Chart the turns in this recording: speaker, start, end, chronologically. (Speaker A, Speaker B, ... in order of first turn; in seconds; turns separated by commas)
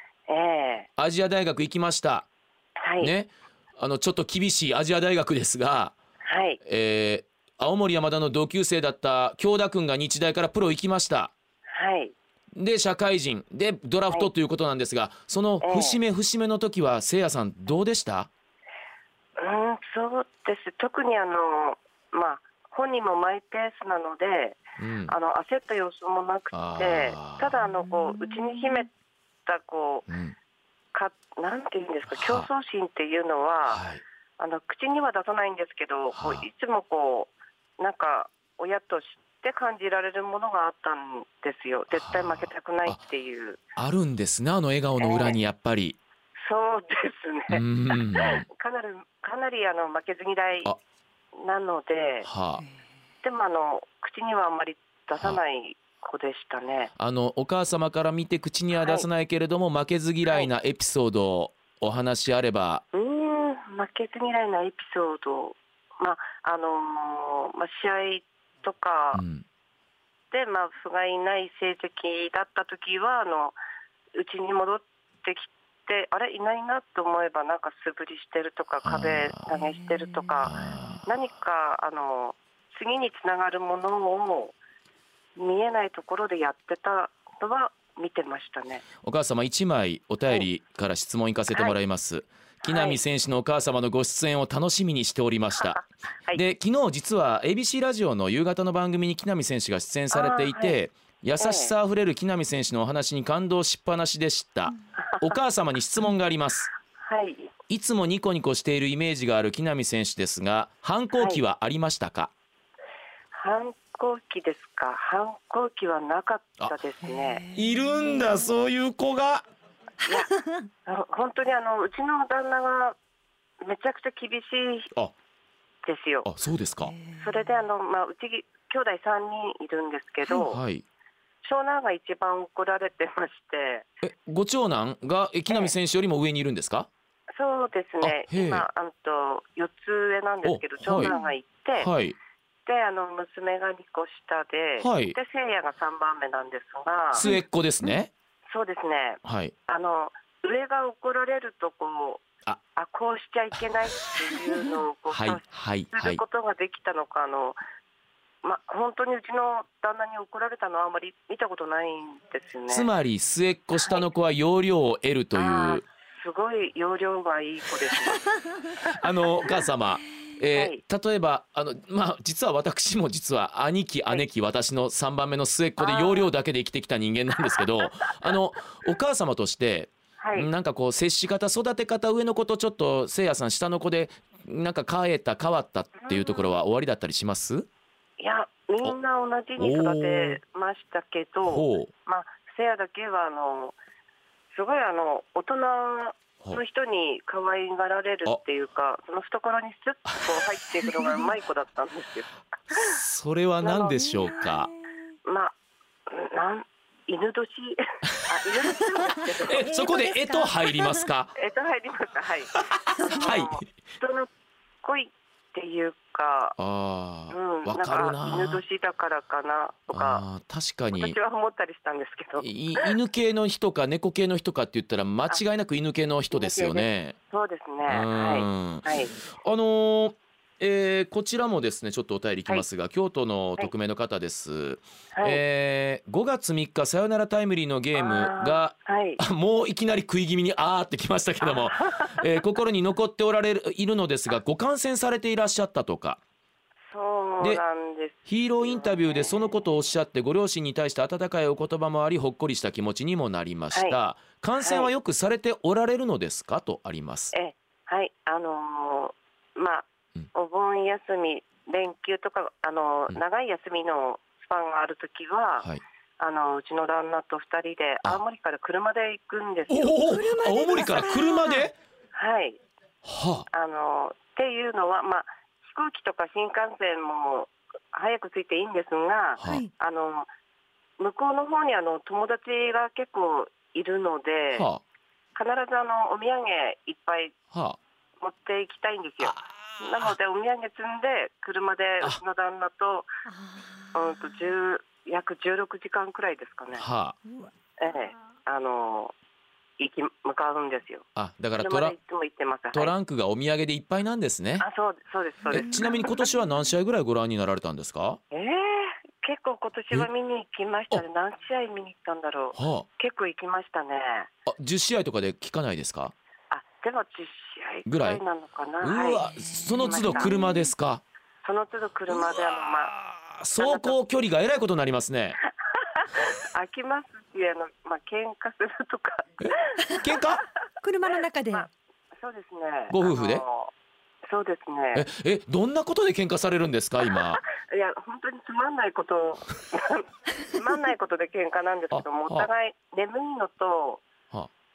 Speaker A: 0.3-0.9, Speaker B: 1.0-2.3, Speaker A: 2.8-3.1, Speaker B: 3.0-6.0, Speaker A: 6.2-6.6, Speaker B: 6.6-11.3, Speaker A: 11.7-12.1, Speaker B: 12.6-18.3, Speaker A: 15.6-16.0, Speaker A: 19.4-28.9, Speaker B: 24.8-25.1, Speaker B: 26.5-27.5, Speaker C: 28.1-28.7, Speaker A: 29.5-30.1, Speaker B: 30.1-30.4, Speaker A: 30.9-33.9, Speaker B: 32.1-32.5, Speaker B: 33.7-34.0, Speaker A: 34.4-43.6, Speaker B: 36.1-36.5, Speaker B: 41.9-43.0, Speaker B: 43.8-46.0, Speaker A: 45.0-45.4, Speaker A: 46.4-47.6, Speaker B: 47.5-48.5, Speaker A: 48.1-50.7, Speaker A: 51.4-52.3, Speaker B: 52.2-52.6, Speaker A: 53.2-56.9, Speaker B: 57.0-62.8, Speaker A: 58.7-59.1, Speaker A: 62.9-69.2, Speaker B: 69.1-69.4, Speaker A: 70.3-73.6, Speaker A: 74.1-84.6, Speaker B: 78.8-79.4, Speaker C: 79.5-81.0, Speaker B: 80.4-81.1, Speaker A: 85.4-88.8, Speaker B: 89.0-95.8, Speaker A: 92.6-93.0, Speaker A: 95.6-96.4, Speaker B: 96.3-106.7, Speaker A: 100.1-100.8, Speaker A: 101.4-101.7, Speaker A: 105.0-105.4, Speaker A: 107.0-107.5, Speaker B: 107.7-112.3, Speaker A: 111.2-111.4, Speaker A: 113.3-117.4, Speaker C: 117.0-118.5, Speaker B: 117.5-119.5, Speaker A: 120.1-120.3, Speaker C: 120.1-120.7, Speaker A: 120.9-123.0, Speaker A: 123.6-124.9, Speaker A: 125.8-126.3, Speaker B: 126.2-127.0, Speaker C: 126.8-127.5, Speaker A: 127.2-130.6, Speaker B: 130.3-130.8, Speaker A: 131.4-133.9, Speaker B: 134.0-136.9, Speaker A: 137.3-141.9, Speaker B: 138.0-138.7, Speaker B: 140.4-141.1, Speaker C: 140.9-141.3, Speaker B: 141.8-142.2, Speaker A: 142.7-147.2, Speaker B: 144.8-145.2, Speaker B: 147.1-148.1, Speaker C: 147.2-148.0, Speaker A: 148.5-157.6, Speaker B: 149.2-149.5, Speaker B: 155.1-156.2, Speaker A: 158.4-162.9, Speaker B: 162.7-165.8, Speaker A: 165.3-168.3, Speaker B: 168.8-187.7, Speaker A: 170.5-170.8, Speaker A: 175.8-176.3, Speaker A: 180.2-180.5, Speaker A: 186.0-186.5, Speaker A: 188.2-193.8, Speaker B: 189.6-190.4, Speaker B: 191.5-191.9, Speaker A: 194.5-202.9, Speaker B: 202.7-204.7, Speaker A: 203.6-204.4, Speaker C: 204.1-204.9, Speaker A: 205.2-205.5, Speaker A: 206.1-209.7, Speaker C: 209.1-211.1, Speaker B: 209.4-211.3, Speaker A: 211.3-214.3, Speaker B: 212.6-213.7, Speaker A: 214.8-216.6, Speaker B: 216.6-218.6, Speaker A: 217.3-220.2, Speaker B: 219.9-221.2, Speaker A: 220.9-222.9, Speaker B: 222.4-227.2, Speaker A: 226.3-229.1, Speaker B: 227.9-246.2, Speaker A: 235.1-235.4, Speaker A: 238.0-239.2, Speaker A: 241.4-242.2, Speaker A: 246.9-249.6, Speaker B: 248.3-257.3, Speaker A: 254.6-254.9, Speaker A: 257.3-265.7, Speaker A: 266.2-270.0, Speaker B: 269.7-271.8, Speaker C: 270.1-271.7, Speaker A: 272.1-272.6, Speaker B: 273.0-273.5, Speaker A: 273.5-280.3, Speaker B: 279.4-279.6, Speaker C: 279.5-279.7, Speaker A: 281.0-284.7, Speaker B: 284.5-284.8, Speaker A: 285.4-287.4, Speaker B: 287.5-287.8, Speaker A: 288.2-293.1, Speaker B: 289.2-290.1, Speaker C: 293.3-294.3, Speaker A: 293.9-296.9, Speaker B: 296.7-297.2, Speaker A: 297.8-299.1, Speaker A: 299.8-301.1, Speaker B: 301.1-302.0, Speaker A: 301.6-302.9, Speaker B: 302.7-304.7, Speaker A: 304.6-306.1, Speaker B: 305.5-308.2, Speaker C: 305.6-306.4, Speaker A: 308.3-314.3, Speaker B: 312.6-312.9, Speaker B: 314.5-316.1, Speaker A: 316.5-320.4, Speaker B: 317.9-318.2, Speaker B: 318.8-321.0, Speaker C: 319.2-320.7, Speaker A: 321.4-322.9, Speaker B: 322.1-325.4, Speaker A: 323.5-324.0, Speaker A: 325.7-330.2, Speaker B: 329.4-330.4, Speaker C: 330.8-331.7, Speaker A: 331.5-333.7, Speaker B: 332.9-333.4, Speaker A: 334.3-335.1, Speaker B: 334.9-337.4, Speaker A: 337.4-344.1, Speaker B: 341.9-342.5